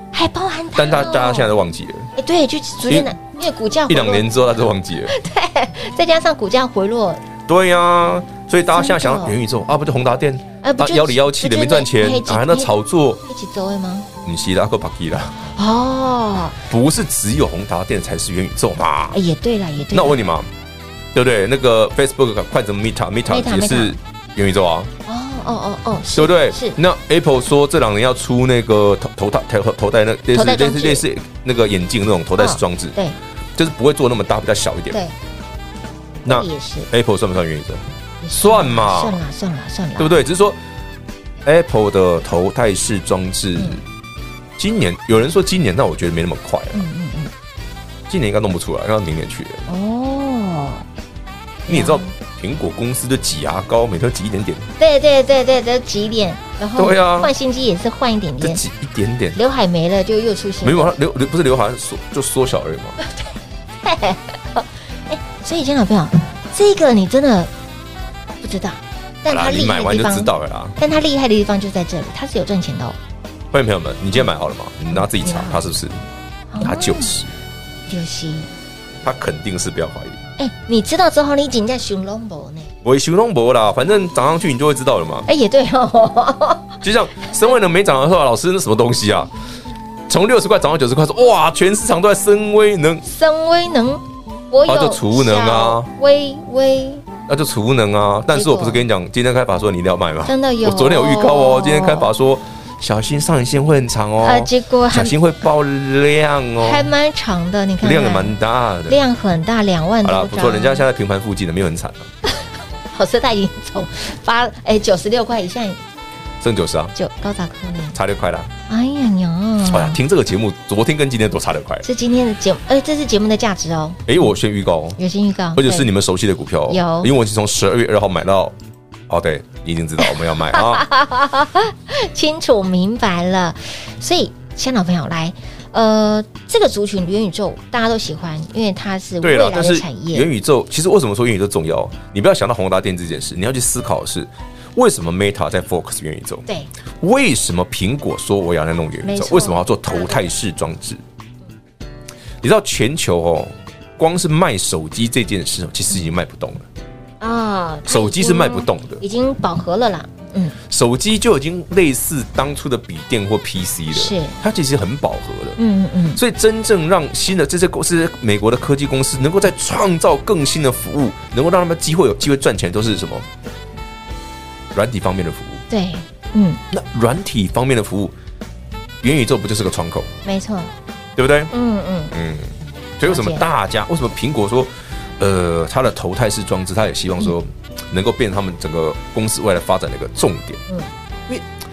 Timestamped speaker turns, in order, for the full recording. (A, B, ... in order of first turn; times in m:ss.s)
0:00.1-0:01.5 A
0:00.8-0:02.1 B
0:02.2-0:04.3 A
0:03.9-0:05.1 B
0:05.1-0:07.2 A
0:07.5-0:13.2 B
0:08.7-0:09.4 A
0:10.6-0:12.7 A
0:13.3-0:14.1 A
0:14.2-0:15.4 B
0:15.6-0:16.6 A
0:16.6-0:19.2 B
0:19.1-0:20.2 A
0:19.9-0:20.5 B
0:21.1-0:24.9 B
0:23.3-0:24.0 A
0:25.1-0:26.8 A
0:26.2-0:33.0 B
0:30.3-0:31.0 A
0:32.4-0:33.2 A
0:33.6-0:35.0 B
0:36.2-0:36.9 A
0:36.2-0:39.2 B
0:38.2-0:40.2 A
0:40.0-0:40.6 B
0:41.4-0:43.8 B
0:44.6-0:46.9 B
0:46.7-0:47.3 A
0:48.1-0:49.7 B
0:49.7-0:50.8 A
0:51.7-0:52.1 A
0:51.7-0:54.7 B
0:54.8-0:58.6 A
0:56.8-0:57.3 B
0:58.4-0:59.4 B
0:59.4-1:00.9 A
1:00.6-1:03.0 B
1:03.8-1:07.5 A
1:08.4-1:13.0 A
1:09.3-1:10.8 B
1:13.5-1:16.0 B
1:14.9-1:15.7 A
1:16.5-1:17.2 A
1:16.6-1:17.3 B
1:17.9-1:18.5 A
1:19.0-1:20.2 B
1:20.4-1:22.7 A
1:22.8-1:25.3 B
1:25.3-1:26.8 A
1:26.8-1:29.3 B
1:30.1-1:33.0 B
1:33.0-1:37.0 A
1:34.7-1:35.9 B
1:37.3-1:46.9 B
1:38.3-1:38.8 A
1:40.3-1:42.1 A
1:44.2-1:45.2 A
1:46.6-1:50.9 A
1:47.8-1:49.0 B
1:50.0-1:52.1 B
1:52.9-1:55.8 A
1:56.4-1:56.9 B
1:57.0-1:58.0 A
1:57.9-1:58.5 B
1:58.7-2:00.0 A
1:59.7-2:01.9 B
2:01.8-2:04.0 A
2:04.1-2:05.0 B
2:05.0-2:05.9 A
2:05.6-2:08.6 B
2:06.7-2:07.1 A
2:09.1-2:10.9 B
2:10.0-2:20.3 A
2:19.2-2:26.5 B
2:27.0-2:31.0 B
2:29.0-2:30.3 A
2:32.4-2:36.7 B
2:37.2-2:40.6 A
2:37.9-2:39.0 B
2:40.7-2:45.6 B
2:43.9-2:44.4 A
2:45.6-2:46.2 A
2:46.1-2:53.3 B
2:54.7-2:55.6 B
2:55.7-2:56.6 A
2:56.7-2:58.2 B
2:59.0-3:00.1 B
3:00.2-3:00.7 A
3:01.2-3:01.5 B
3:01.5-3:02.1 A
3:02.1-3:10.6 B
3:03.1-3:03.5 A